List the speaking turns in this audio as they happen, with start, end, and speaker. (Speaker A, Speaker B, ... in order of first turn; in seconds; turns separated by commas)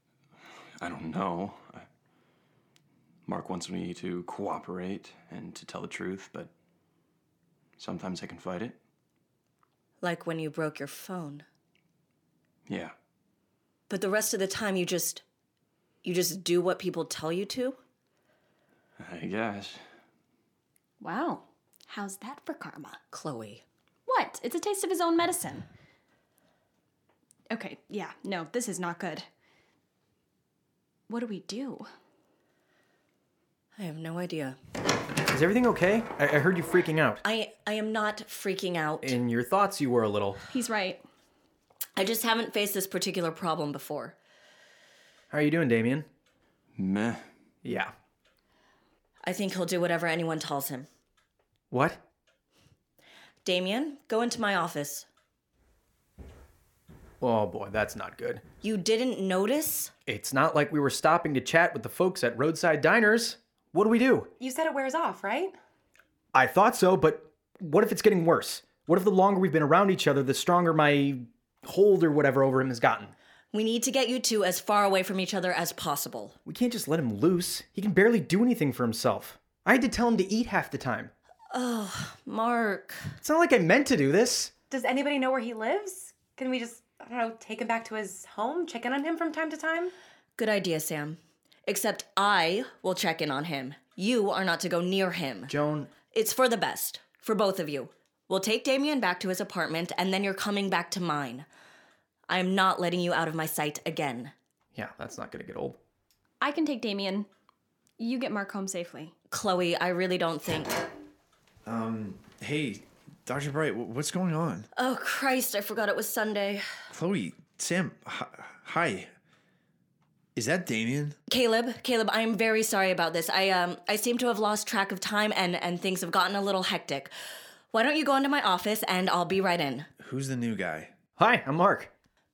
Speaker A: 0.8-1.9, Speaker A: 3.3-6.5, Speaker A: 7.8-8.8, Speaker B: 10.0-11.4, Speaker A: 12.7-12.9, Speaker B: 13.9-15.2, Speaker B: 16.0-17.8, Speaker A: 19.0-19.8, Speaker C: 21.0-23.0, Speaker B: 23.1-23.6, Speaker C: 24.1-25.7, Speaker C: 27.5-29.3, Speaker C: 31.1-31.9, Speaker B: 33.8-34.6, Speaker D: 35.3-37.2, Speaker B: 37.2-39.2, Speaker D: 39.0-40.4, Speaker C: 40.5-41.0, Speaker B: 42.0-44.1, Speaker D: 45.3-46.1, Speaker A: 46.8-47.3, Speaker D: 47.6-47.9, Speaker B: 49.2-50.9, Speaker D: 51.7-52.0, Speaker B: 53.5-55.1, Speaker D: 57.2-58.4, Speaker B: 58.6-59.9, Speaker D: 60.1-64.3, Speaker E: 64.4-65.5, Speaker D: 66.3-73.1, Speaker B: 73.5-76.4, Speaker D: 76.5-81.1, Speaker B: 81.5-83.2, Speaker D: 83.2-84.5, Speaker E: 84.7-89.9, Speaker B: 90.4-95.5, Speaker D: 95.5-95.9, Speaker B: 96.1-101.5, Speaker B: 102.3-104.3, Speaker D: 104.8-105.8, Speaker C: 106.4-107.3, Speaker C: 108.0-109.1, Speaker B: 109.3-110.8, Speaker F: 111.7-114.7, Speaker B: 114.8-116.7, Speaker F: 116.9-119.1, Speaker F: 120.3-121.2, Speaker B: 121.3-127.1, Speaker B: 127.7-129.9, Speaker F: 130.0-130.9, Speaker D: 131.2-131.9